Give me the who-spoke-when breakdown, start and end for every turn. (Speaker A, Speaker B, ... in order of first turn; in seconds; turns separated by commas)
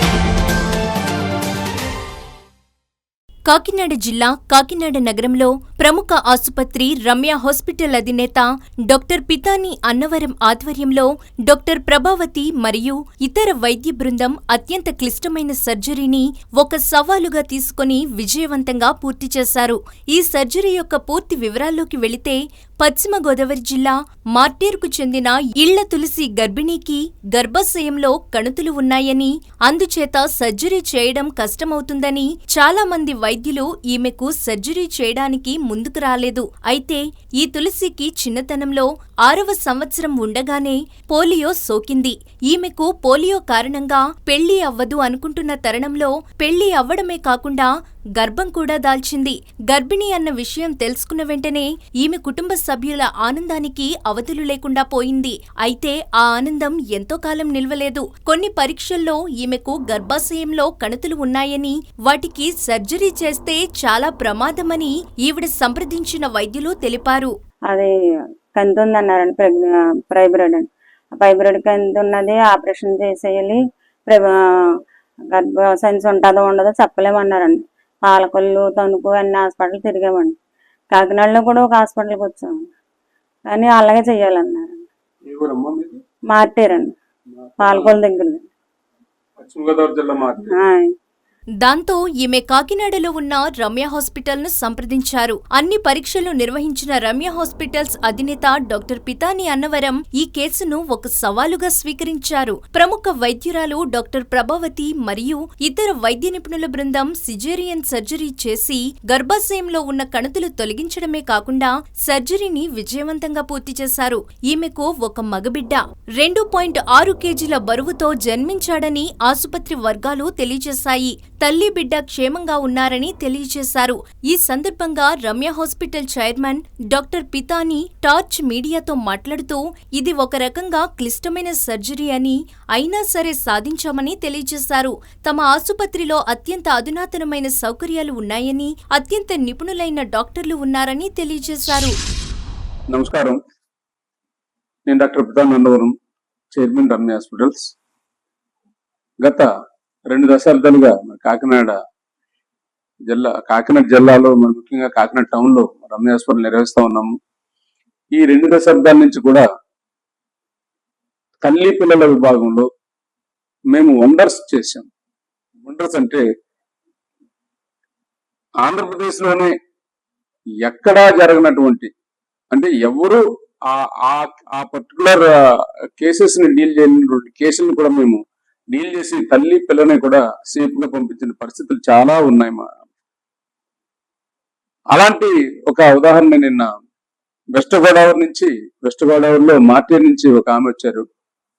Speaker A: 3.5-67.3, Speaker B: 68.6-74.7, Speaker B: 75.3-80.4, Speaker B: 80.9-82.5, Speaker B: 83.5-84.8, Speaker C: 85.2-86.0, Speaker B: 86.3-86.9, Speaker C: 87.4-88.0, Speaker B: 87.6-88.4, Speaker C: 89.4-90.6, Speaker B: 90.5-90.9, Speaker A: 91.6-141.9, Speaker C: 142.9-143.4, Speaker C: 144.9-145.9, Speaker C: 146.6-147.7, Speaker C: 150.1-151.8, Speaker C: 153.1-157.1, Speaker C: 158.1-159.5, Speaker C: 161.4-162.7, Speaker C: 163.7-164.9, Speaker C: 165.7-166.2, Speaker C: 168.6-169.5, Speaker C: 170.6-171.9, Speaker C: 172.5-175.3, Speaker C: 176.0-178.2, Speaker C: 178.7-182.7, Speaker C: 184.9-186.7, Speaker C: 187.6-191.0